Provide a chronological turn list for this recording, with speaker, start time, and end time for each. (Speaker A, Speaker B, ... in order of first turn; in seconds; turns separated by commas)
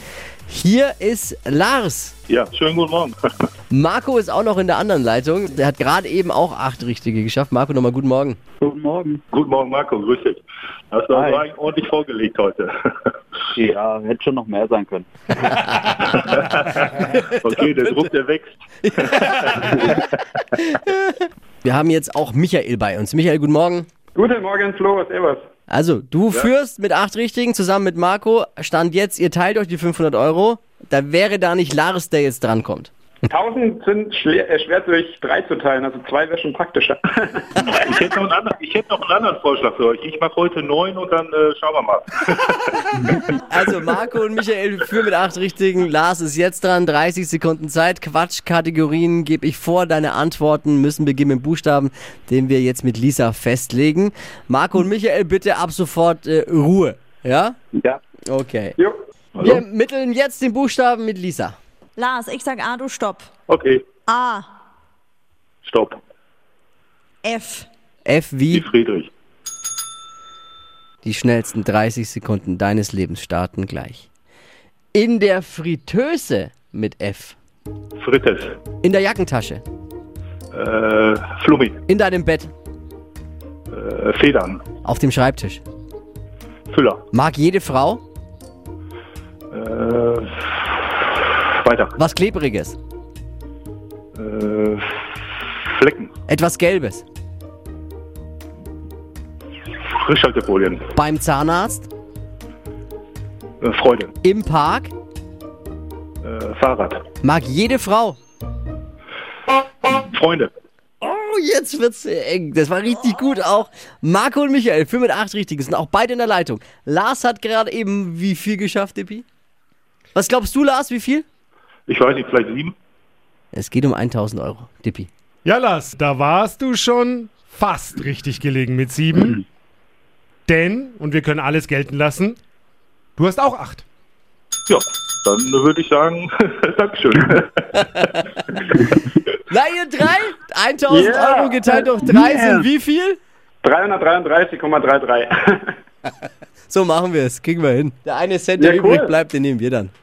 Speaker A: 0.5-2.1, Speaker B: 2.3-3.1, Speaker A: 3.7-8.4, Speaker C: 8.6-9.2, Speaker B: 9.3-13.1, Speaker C: 11.1-11.4, Speaker C: 13.5-15.1, Speaker B: 15.9-20.0, Speaker A: 20.5-23.9, Speaker D: 24.1-25.4, Speaker A: 25.7-32.9, Speaker D: 33.3-37.7, Speaker B: 37.6-43.2, Speaker A: 43.3-57.6, Speaker A: 58.3-58.8, Speaker B: 59.4-59.6, Speaker A: 59.4-61.6, Speaker E: 62.0-63.3, Speaker B: 63.5-64.0, Speaker E: 64.1-64.5, Speaker B: 65.6-66.0, Speaker E: 67.2-67.7, Speaker A: 68.0-68.7, Speaker B: 68.5-69.1, Speaker A: 71.0-74.1, Speaker A: 74.9-77.4, Speaker B: 78.0-78.6, Speaker A: 78.8-79.6, Speaker B: 80.5-81.8, Speaker A: 81.9-82.5, Speaker B: 83.7-84.6, Speaker A: 84.8-85.6, Speaker B: 86.7-87.0, Speaker A: 87.1-88.0, Speaker B: 89.5-92.0, Speaker A: 92.0-92.8, Speaker B: 94.2-96.1, Speaker A: 96.3-97.0, Speaker B: 99.9-100.9, Speaker A: 100.9-101.9, Speaker B: 103.6-104.1, Speaker A: 104.2-104.9, Speaker B: 106.2-107.0, Speaker A: 107.2-108.2, Speaker B: 109.8-110.5, Speaker A: 111.0-119.2, Speaker A: 120.2-121.2, Speaker B: 121.9-122.7, Speaker A: 123.5-125.1, Speaker F: 125.4-129.4, Speaker F: 130.5-132.4, Speaker F: 133.2-133.8, Speaker B: 134.7-138.2, Speaker A: 138.0-138.6, Speaker A: 139.5-143.2, Speaker D: 140.9-142.2, Speaker D: 143.6-145.7, Speaker A: 146.7-149.9, Speaker D: 148.6-149.1